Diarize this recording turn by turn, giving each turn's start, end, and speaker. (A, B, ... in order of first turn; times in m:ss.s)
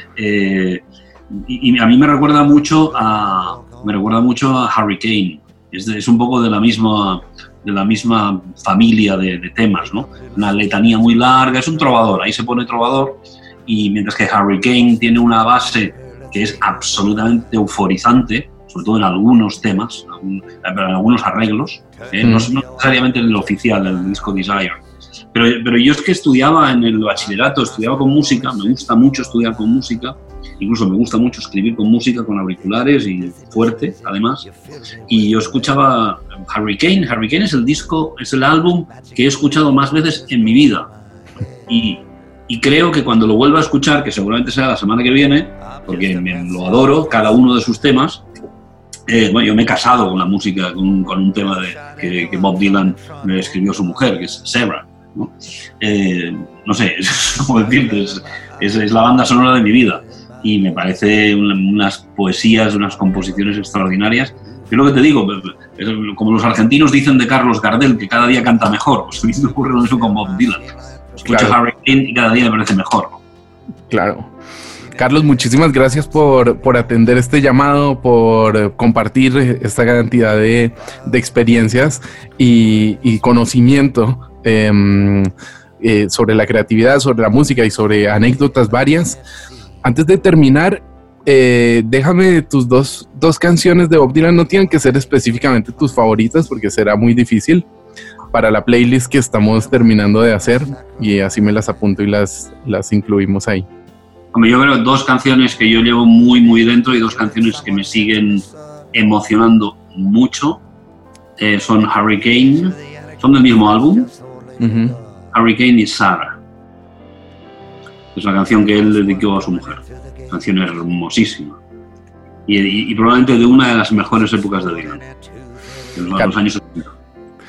0:00.2-0:34.5 A
0:22.2-0:22.5 B
0:35.1-0:40.9 A
0:41.7-0:48.2 A
0:49.1-1:13.2 A
1:11.2-1:11.6 B
1:13.9-1:14.3 B
1:15.0-1:29.2 B
1:29.8-1:37.6 B
1:38.3-1:43.6 B
1:44.3-1:50.6 A
1:51.4-1:54.1 A
1:54.6-1:55.0 B
1:55.3-1:56.4 A
1:58.1-2:01.6 A
2:02.5-2:05.0 A
2:05.9-2:06.9 A